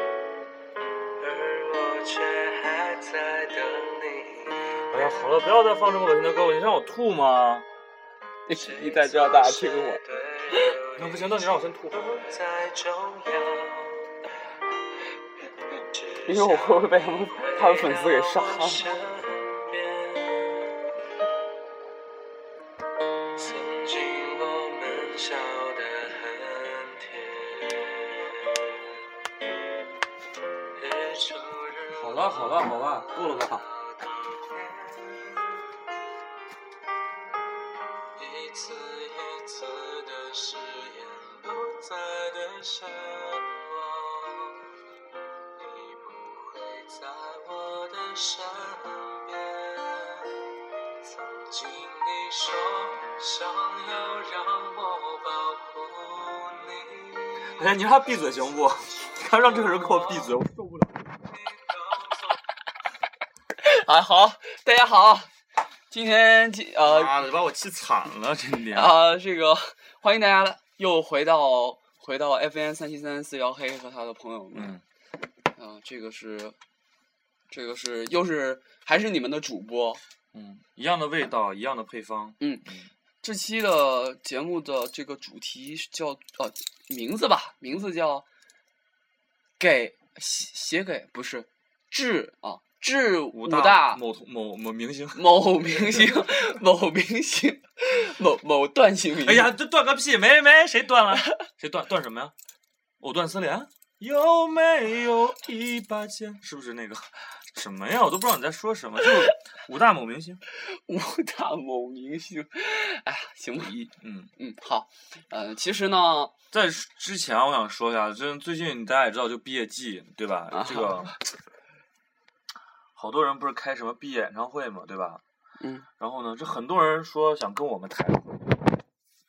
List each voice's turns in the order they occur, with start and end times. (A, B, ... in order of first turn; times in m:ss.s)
0:01.2-0:04.9 A
0:04.9-0:07.7 B
0:08.5-0:10.0 C
0:08.5-0:14.1 A
0:11.0-0:12.1 B
0:15.7-0:20.7 A
0:16.3-0:18.9 C
0:23.4-0:28.9 A
0:30.8-0:35.8 A
0:31.9-0:33.6 B
0:38.2-0:44.6 A
0:45.6-0:50.4 A
0:51.0-0:57.5 A
0:57.5-1:01.3 B
0:59.2-1:00.4 A
1:01.3-1:02.4 A
1:03.6-1:05.3 C
1:05.9-1:07.1 C
1:06.8-1:09.0 B
1:08.7-1:14.8 C
1:14.5-1:14.8 B
1:15.6-1:16.6 C
1:17.5-1:20.0 C
1:20.3-1:22.9 B
1:23.2-1:28.2 C
1:29.6-1:34.0 C
1:33.3-1:36.4 B
1:35.2-1:39.5 C
1:39.2-1:42.3 B
1:43.0-1:50.4 B
1:50.7-1:56.3 C
1:54.0-1:54.3 B
1:56.5-2:01.2 B
2:00.5-2:01.1 C
2:03.0-2:05.2 B
2:05.6-2:05.9 C
2:06.0-2:08.8 B